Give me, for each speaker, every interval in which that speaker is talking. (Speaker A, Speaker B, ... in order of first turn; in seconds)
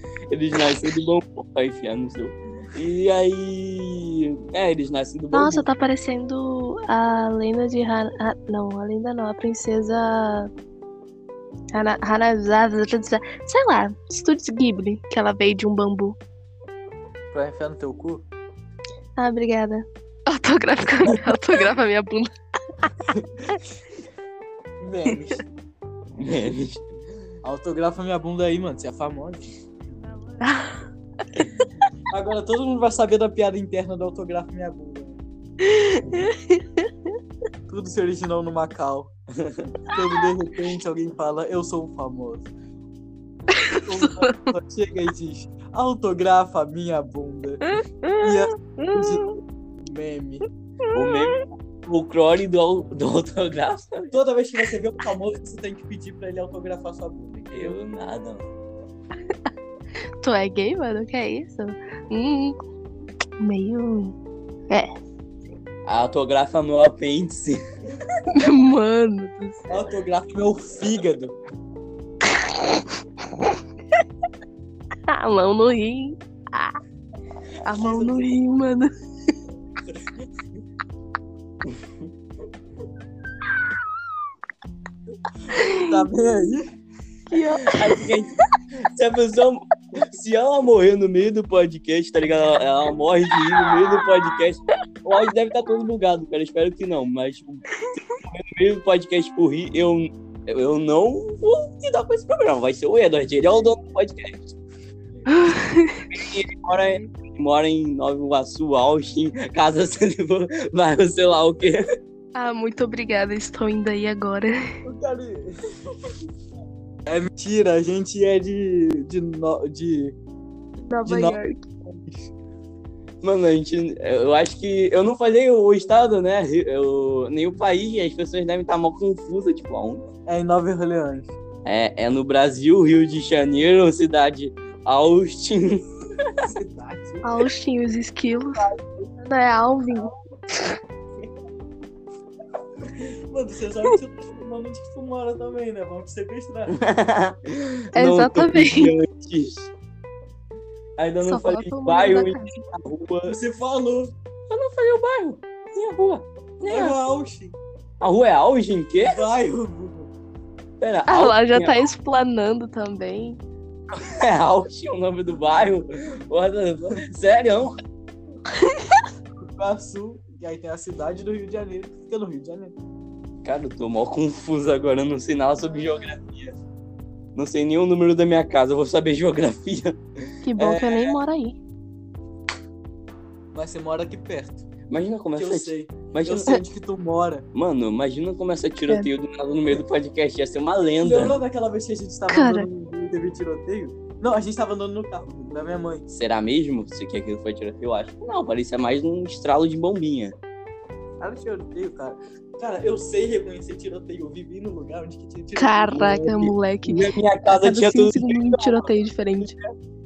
Speaker A: 0.3-5.7, 26.2-26.8, 39.4-39.7, 50.9-54.1, 57.5-58.5, 65.8-67.6, 87.6-104.5, 106.1-111.8, 123.2-130.0, 131.6-136.4, 146.7-149.7, 151.0-153.4, 154.5-157.0, 158.0-159.2, 160.8-161.8, 163.9-167.7, 173.4-176.6, 177.3-180.0, 180.6-181.2, 184.9-186.6, 187.5-191.4, 196.1-200.3, 206.8-209.7
Speaker B: 5.3-10.5, 11.7-16.2, 19.2-22.3, 30.4-30.8, 35.6-36.9, 43.5-44.5, 47.7-49.4, 50.8-51.4, 60.2-62.6, 63.4-64.1, 68.3-69.7, 72.3-72.8, 75.1-76.8, 77.6-78.9, 85.5-86.0, 87.3-88.1, 105.3-106.1, 106.7-107.1, 112.3-114.7, 120.9-121.7, 137.2-138.6, 139.2-140.7, 147.9-148.9, 151.2-152.6, 161.1-163.4, 168.6-169.0, 180.4-181.6, 192.3-192.7, 205.6-209.5
Speaker C: 17.3-18.2, 24.8-25.4, 27.4-29.5, 32.1-35.2, 37.7-39.1, 39.9-42.5, 43.8-47.7, 48.2-49.2, 49.8-50.4, 54.1-57.8, 69.7-71.3, 77.7-78.3, 85.7-86.7, 114.8-115.5, 117.0-120.1, 121.0-122.2, 130.3-131.3, 136.4-137.4, 138.6-139.1, 142.8-146.8, 153.2-154.1, 156.7-157.6, 159.0-160.1, 169.4-172.7, 183.5-184.6, 185.3-187.4, 191.0-196.1, 201.2-206.5